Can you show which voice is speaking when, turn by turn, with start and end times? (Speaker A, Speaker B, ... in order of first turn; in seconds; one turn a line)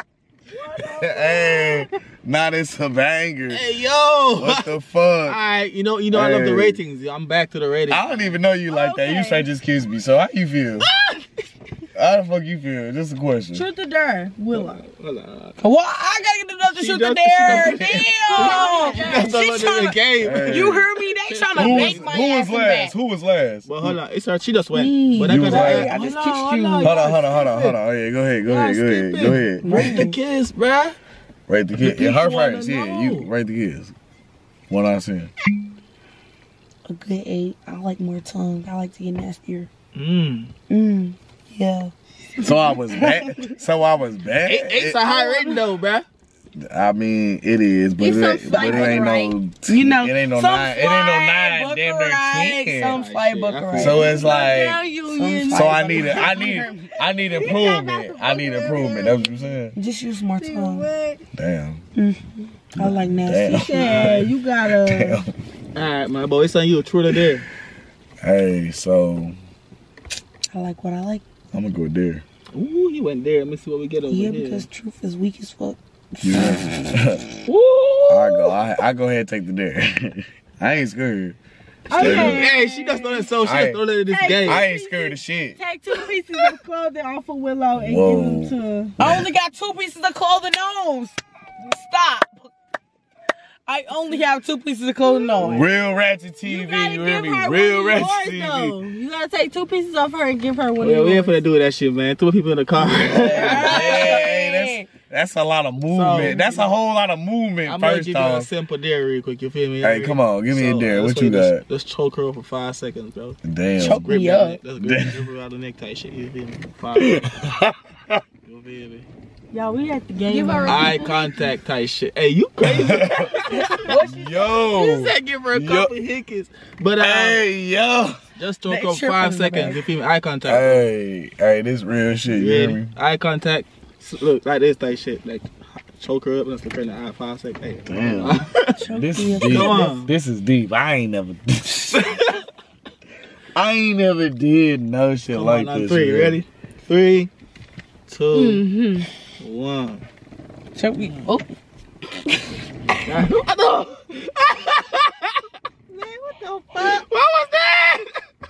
Speaker A: 0.8-1.9
Speaker B: 0.8-3.6
Speaker C: 3.5-4.7
Speaker B: 4.3-5.4
Speaker C: 5.2-8.4
Speaker B: 6.1-6.8
Speaker B: 7.9-10.9
Speaker A: 8.7-9.4
Speaker C: 10.8-11.2
Speaker B: 11.9-13.7
Speaker A: 13.6-14.8
Speaker C: 14.5-15.6
Speaker D: 15.6-22.9
Speaker C: 16.7-22.2
Speaker A: 18.0-19.3
Speaker B: 20.2-20.9
Speaker B: 21.5-24.0
Speaker C: 23.6-27.8
Speaker D: 24.7-27.1
Speaker B: 25.2-25.9
Speaker A: 25.9-26.4
Speaker B: 26.8-30.1
Speaker C: 28.5-31.0
Speaker D: 29.4-30.1
Speaker B: 31.5-33.9
Speaker C: 31.8-33.3
Speaker B: 34.7-35.3
Speaker D: 36.9-39.7
Speaker C: 39.9-40.5
Speaker D: 40.7-43.5
Speaker B: 42.4-45.0
Speaker C: 44.4-46.0
Speaker B: 46.6-53.0
Speaker A: 48.0-49.3
Speaker D: 48.5-49.1
Speaker D: 49.7-54.1
Speaker C: 52.9-54.2
Speaker B: 53.7-54.8
Speaker A: 54.1-59.5
Speaker D: 55.1-56.8
Speaker B: 55.5-59.7
Speaker D: 59.8-60.9
Speaker A: 60.4-61.2
Speaker B: 61.3-61.8
Speaker D: 62.0-64.0
Speaker B: 62.7-65.3
Speaker A: 63.5-65.2
Speaker C: 63.9-64.3
Speaker C: 65.7-67.5
Speaker B: 68.2-69.3
Speaker D: 70.5-71.2
Speaker B: 71.5-72.2
Speaker C: 72.5-74.7
Speaker D: 74.1-77.2
Speaker B: 76.2-77.2
Speaker C: 77.5-78.6
Speaker B: 78.1-81.4
Speaker D: 81.9-82.7
Speaker A: 81.9-83.2
Speaker B: 81.9-82.4
Speaker C: 81.9-84.6
Speaker B: 83.4-83.8
Speaker A: 84.1-88.9
Speaker B: 84.4-85.6
Speaker B: 87.7-89.2
Speaker D: 89.0-92.5
Speaker D: 93.7-95.7
Speaker B: 95.4-98.8
Speaker A: 96.4-101.4
Speaker C: 100.8-104.2
Speaker D: 103.0-104.9
Speaker B: 103.2-108.5
Speaker C: 105.9-106.7
Speaker C: 107.6-117.3
Speaker B: 109.8-111.6
Speaker B: 113.4-114.2
Speaker D: 113.8-114.6
Speaker B: 114.8-115.3
Speaker B: 117.0-118.2
Speaker C: 118.5-119.1
Speaker A: 119.5-121.5
Speaker D: 120.3-120.9
Speaker C: 120.7-124.0
Speaker B: 122.6-123.3
Speaker D: 123.7-124.3
Speaker B: 124.0-125.9
Speaker C: 124.7-127.4
Speaker B: 127.0-128.2
Speaker C: 128.4-130.8
Speaker D: 128.7-129.8
Speaker B: 130.4-132.9
Speaker C: 132.3-138.7
Speaker B: 137.8-142.1
Speaker D: 138.7-140.0
Speaker C: 139.4-140.1
Speaker C: 141.9-142.3
Speaker B: 143.5-146.4
Speaker C: 145.3-147.3
Speaker C: 148.1-148.6
Speaker D: 148.3-149.1
Speaker C: 149.4-150.0
Speaker D: 150.7-151.5
Speaker C: 153.0-155.4
Speaker A: 155.9-157.0
Speaker C: 156.8-158.1